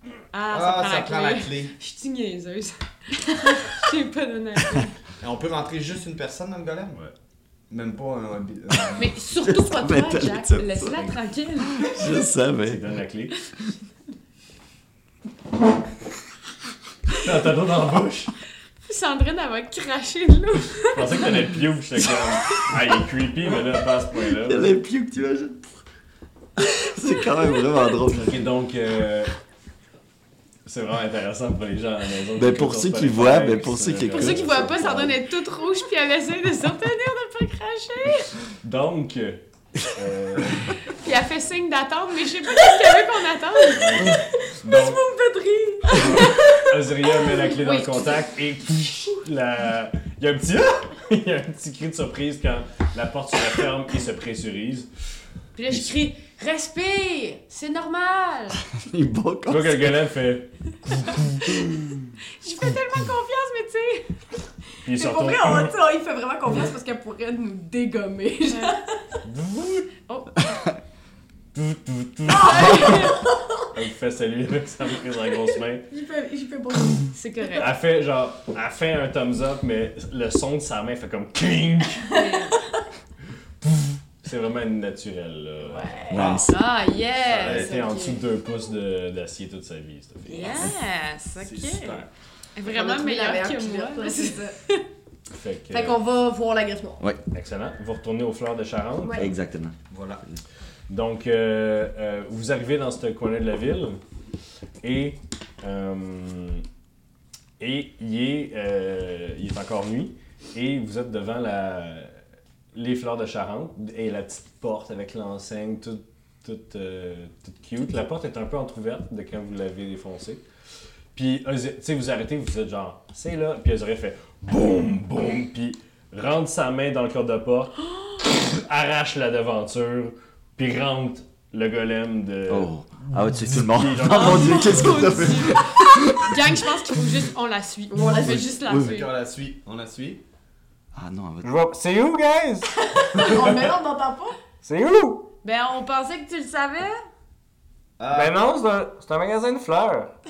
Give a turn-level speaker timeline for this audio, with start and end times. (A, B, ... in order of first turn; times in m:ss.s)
0:00.3-0:05.0 A
0:00.5-0:01.7 B
0:05.2-0:07.0 B
0:07.7-0:09.1 B
0:08.9-0:12.2 A
0:09.4-0:11.0 C
0:11.7-0:12.9 C
0:12.6-0:13.3 D
0:17.1-0:18.3 D
0:18.8-0:21.3 A
0:20.8-0:24.8 D
0:24.3-0:25.7 C
0:26.6-0:28.4 C
0:28.2-0:29.3 D
0:30.6-0:35.2 D
0:32.4-0:34.9 C
0:34.0-0:38.3 A
0:38.2-0:40.9 D
0:40.8-0:44.2 A
0:43.7-0:45.0 D
0:44.2-0:46.5 E
0:45.8-0:46.5 A
0:45.9-0:55.0 D
0:47.2-0:48.2 A
0:55.6-0:58.6 A
0:55.7-0:55.9 D
0:58.7-0:59.9 C
0:59.5-1:01.9 D
1:02.3-1:04.2 A
1:04.8-1:05.7 D
1:04.9-1:08.9 E
1:08.5-1:08.8 A
1:09.2-1:09.9 D
1:10.1-1:10.7 A
1:11.5-1:13.2 D
1:12.4-1:13.2 A
1:12.4-1:13.4 E
1:13.7-1:15.9 D
1:15.9-1:17.4 E
1:16.9-1:22.1 D
1:17.1-1:17.7 A
1:22.1-1:22.6 A
1:22.1-1:22.7 E
1:23.6-1:26.1 D
1:25.7-1:26.2 E
1:26.1-1:26.6 C
1:26.1-1:26.5 B
1:26.4-1:28.2 A
1:27.1-1:30.7 D
1:27.4-1:27.7 B
1:30.3-1:34.8 A
1:31.4-1:32.1 B
1:32.6-1:34.6 E
1:35.3-1:36.0 D
1:35.7-1:37.0 E
1:37.3-1:39.3 D
1:39.0-1:39.3 E
1:39.2-1:39.8 C
1:39.9-1:40.2 B
1:40.9-1:44.0 D
1:44.8-1:46.6 D
1:47.6-1:52.2 D
1:52.7-2:00.4 D
2:01.1-2:12.7 D
2:12.5-2:16.4 C
2:13.5-2:15.1 D
2:14.1-2:19.1 A
2:17.9-2:18.5 E
2:18.4-2:19.0 C
2:18.7-2:20.2 B
2:20.9-2:21.5 C
2:21.4-2:23.7 D
2:22.8-2:24.4 E
2:24.6-2:25.2 D
2:25.4-2:27.0 A
2:28.0-2:28.4 B
2:28.1-2:30.1 D